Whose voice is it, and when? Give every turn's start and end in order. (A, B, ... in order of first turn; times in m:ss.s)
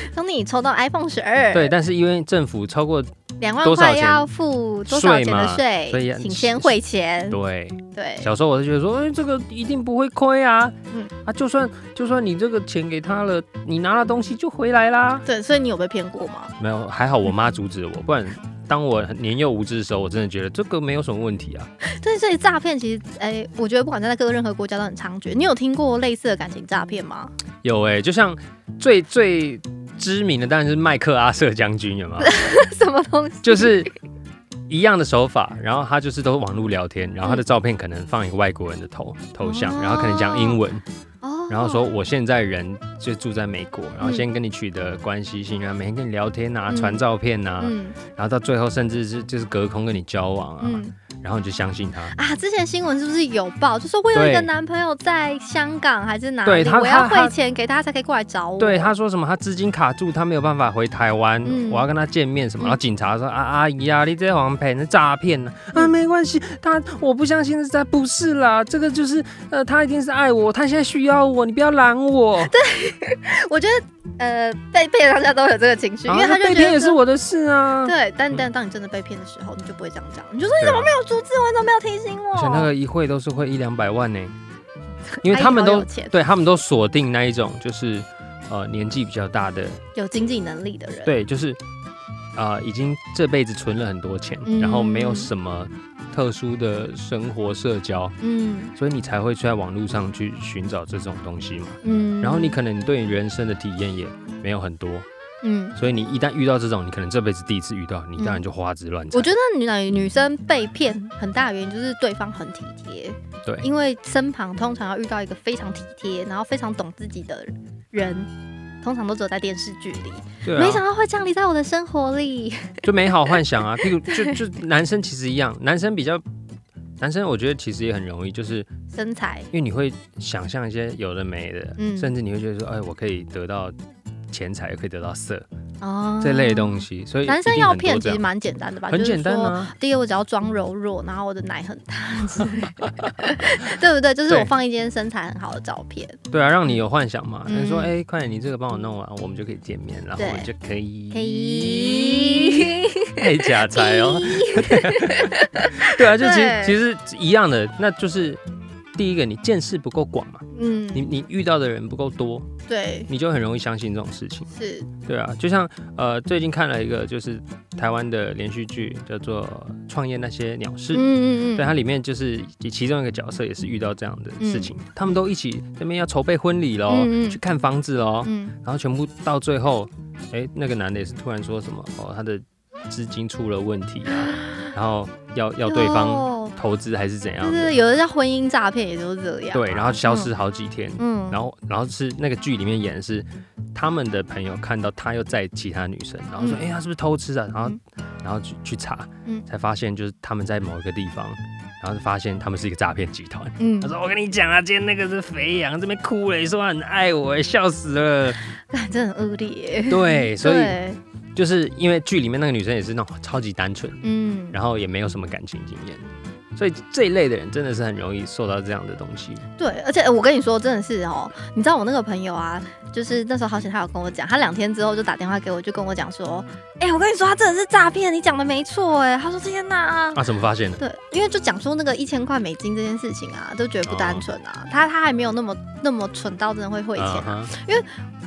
0:00.1-0:01.7 A
0:01.5-0:03.1 B
0:03.4-0:07.4 A
0:03.6-0:04.3 B
0:04.9-0:06.8 B
0:07.3-0:15.3 B
0:07.9-0:08.3 A
0:15.3-0:16.5 A
0:16.6-0:21.7 B
0:21.8-0:27.3 A
0:27.6-0:32.5 B
0:32.2-0:33.9 A
0:33.4-0:33.9 B
0:34.7-0:40.8 B
0:39.4-0:40.6 A
0:41.2-0:41.9 A
0:41.5-0:52.2 B
0:44.0-0:44.3 A
0:46.7-0:47.0 A
0:47.6-0:48.0 A
0:50.6-0:51.0 A
0:52.1-0:58.9 A
0:54.1-0:54.5 B
0:56.4-0:57.3 B
0:58.6-1:12.5 B
1:01.4-1:01.8 A
1:12.4-1:17.0 A
1:16.1-1:18.4 B
1:17.8-1:22.7 A
1:20.6-1:20.9 B
1:22.3-1:24.4 B
1:25.1-1:26.1 A
1:25.2-1:29.8 B
1:30.0-1:31.1 A
1:31.0-1:31.6 B
1:32.4-1:38.2 B
1:34.4-1:35.3 A
1:38.2-1:38.7 A
1:38.8-1:45.1 B
1:41.8-1:42.6 A
1:45.4-1:45.8 A
1:45.8-1:49.3 B
1:48.2-1:48.4 A
1:49.1-1:58.3 A
1:58.8-2:02.8 A
2:00.4-2:00.8 B
2:02.8-2:06.2 B
2:04.0-2:04.4 A
2:07.0-2:08.7 B
2:08.9-2:09.5 A
2:09.5-2:13.8 B
2:11.8-2:12.1 A
2:14.3-2:15.5 B
2:15.8-2:26.2 A
2:16.2-2:18.2 B
2:18.9-2:19.7 B
2:26.3-2:38.4 B
2:27.5-2:27.9 A
2:30.2-2:30.5 A
2:31.1-2:36.8 A
2:39.0-2:42.5 B
2:40.5-2:41.1 A
2:42.7-2:43.1 A
2:43.1-2:44.5 B
2:44.5-2:44.9 A
2:45.1-3:07.8 B
2:50.9-2:51.7 A
2:54.4-2:54.7 A
2:56.9-2:57.4 A
2:58.2-2:58.6 A
3:04.3-3:04.7 A
3:05.6-3:06.6 A
3:07.4-3:10.3 A
3:09.5-3:28.4 B
3:11.0-3:11.4 A
3:16.4-3:16.7 A
3:23.6-3:23.9 A
3:28.7-3:31.0 A
3:29.9-3:30.8 B
3:31.4-3:39.4 B
3:34.0-3:34.6 A
3:39.6-3:50.2 A
3:50.1-3:50.8 B
3:50.8-3:57.9 A
3:53.9-3:54.2 B
3:57.0-3:57.5 B